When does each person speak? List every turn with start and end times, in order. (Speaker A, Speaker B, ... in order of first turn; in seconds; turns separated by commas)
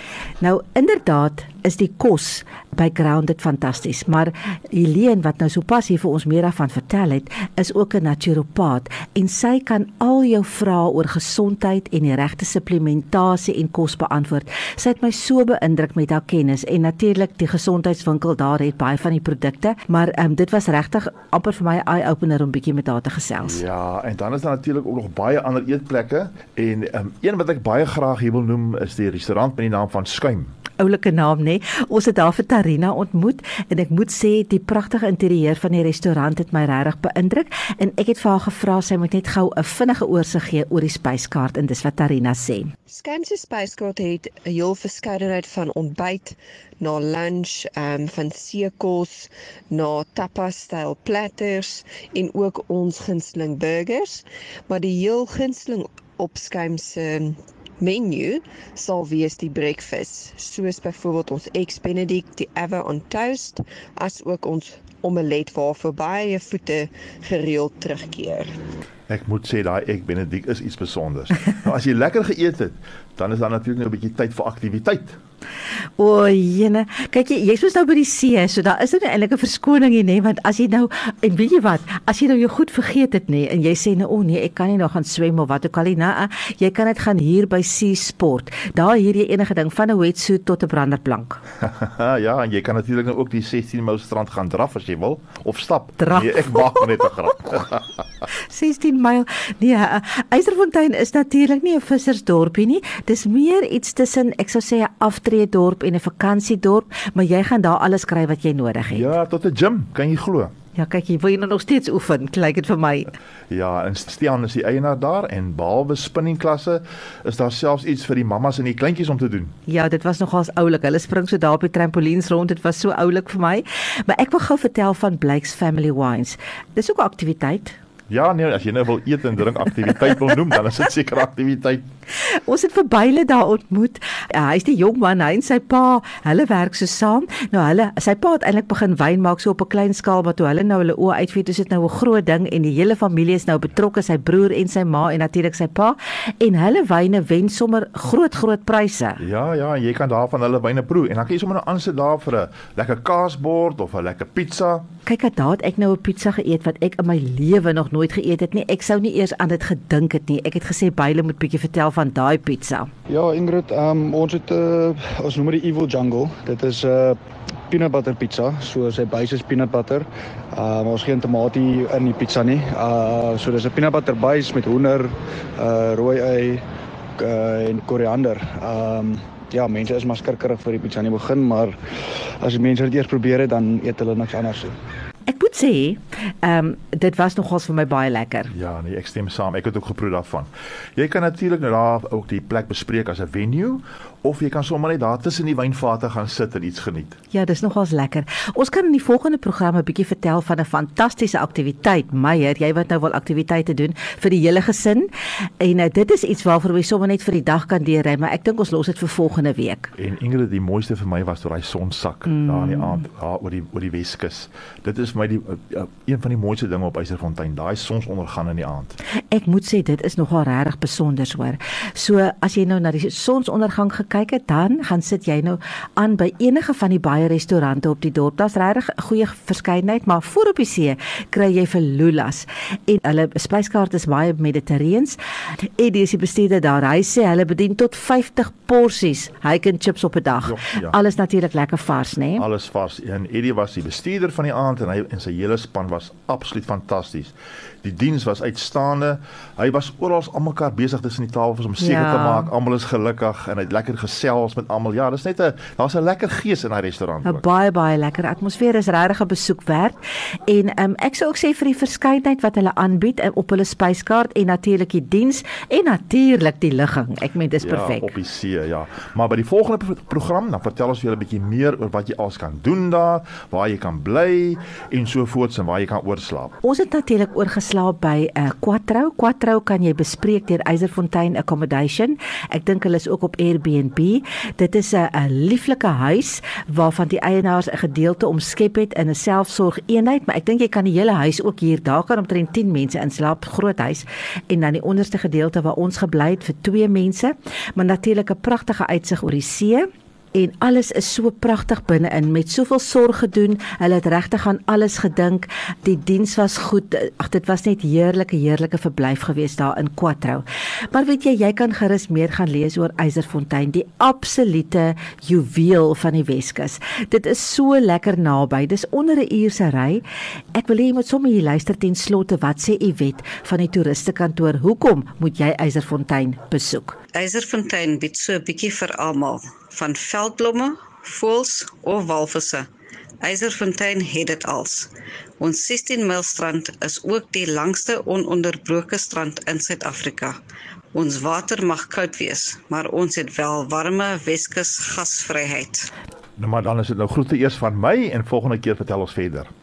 Speaker A: 0.4-23.6, Speaker B: 23.4-30.5, Speaker A: 30.8-42.7, Speaker C: 42.9-68.5, Speaker B: 69.1-75.2, Speaker A: 76.0-91.4, Speaker B: 91.6-97.8, Speaker A: 96.0-97.1, Speaker A: 98.5-109.1, Speaker B: 108.9-110.5, Speaker A: 110.8-113.1, Speaker B: 113.5-119.5, Speaker A: 119.7-127.8, Speaker B: 128.1-131.8, Speaker A: 132.2-149.2, Speaker B: 149.2-154.8, Speaker A: 155.1-162.9, Speaker D: 163.1-167.2, Speaker D: 167.7-176.6, Speaker D: 177.2-181.8, Speaker D: 182.4-184.7, Speaker A: 185.3-188.5, Speaker B: 188.5-197.2, Speaker A: 197.3-205.1, Speaker A: 205.6-209.9, Speaker B: 209.9-219.0, Speaker A: 219.3-242.4, Speaker B: 240.4-241.0, Speaker B: 242.4-257.4, Speaker A: 251.8-252.5, Speaker A: 257.2-259.9, Speaker A: 260.5-268.1, Speaker B: 267.6-276.5, Speaker A: 276.6-320.0, Speaker A: 320.5-327.0, Speaker E: 327.1-332.7, Speaker E: 333.2-340.4, Speaker E: 340.9-345.9, Speaker B: 346.4-349.5